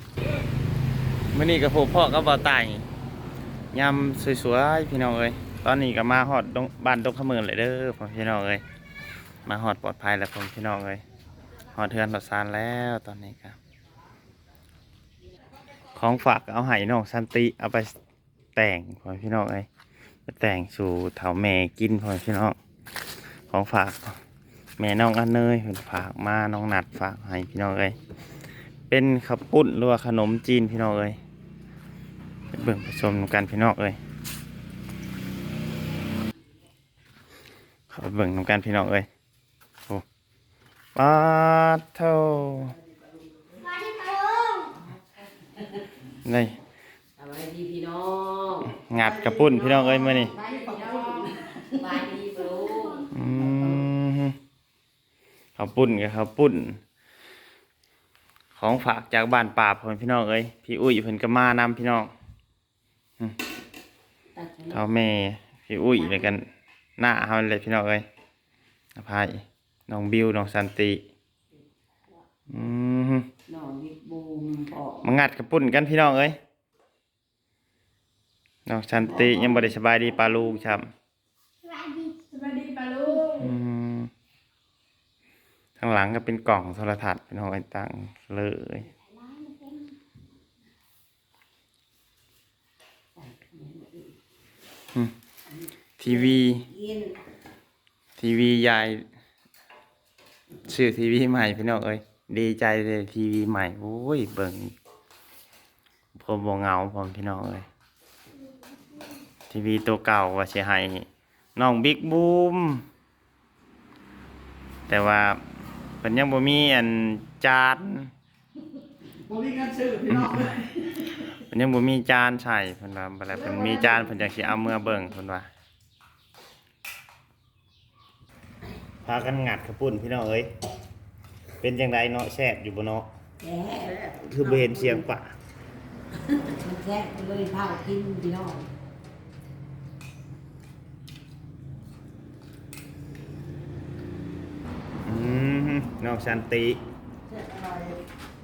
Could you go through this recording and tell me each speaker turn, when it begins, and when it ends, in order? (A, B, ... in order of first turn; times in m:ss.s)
0:01.3-0:02.8 A
0:03.7-0:08.6 A
0:09.5-0:11.0 A
0:11.7-0:13.6 A
0:15.9-0:17.9 A
0:18.6-0:19.7 A
0:20.3-0:22.6 A
0:23.5-0:24.2 A
0:24.8-0:28.0 A
0:28.9-0:31.2 A
0:32.5-0:34.0 A
0:37.9-0:39.1 A
0:41.0-0:42.8 A
0:42.8-0:43.7 B
0:43.7-0:44.8 C
0:46.2-0:46.5 A
0:47.2-0:48.9 D
0:48.7-0:50.4 A
0:49.1-0:51.8 B
0:50.2-0:53.8 D
0:53.1-0:54.4 A
0:55.6-0:56.8 A
0:58.6-1:02.1 A
1:04.4-1:04.9 D
1:04.7-1:08.0 A
1:05.9-1:06.4 D
1:09.0-1:11.0 A
1:12.5-1:13.3 A
1:13.5-1:15.1 D
1:15.0-1:16.4 A
1:18.7-1:20.9 A
1:19.1-1:19.7 D
1:21.6-1:23.5 C
1:23.3-1:24.1 A
1:25.8-1:28.9 A
1:29.0-1:29.7 D
1:33.2-1:34.2 D
1:36.0-1:36.6 A
1:36.0-1:37.2 D
1:38.2-1:39.0 A
1:40.6-1:44.7 A
1:46.1-1:47.7 A
1:49.5-1:52.8 A
1:54.9-1:55.4 A
1:56.0-1:58.1 A
1:59.2-2:00.9 B
2:00.1-2:00.5 A
2:01.1-2:05.5 A
2:09.0-2:10.5 A
2:11.6-2:13.1 A
2:13.4-2:14.0 D
2:13.8-2:15.1 B
2:14.3-2:15.4 A
2:16.5-2:18.7 D
2:25.0-2:26.8 A
2:27.3-2:28.0 B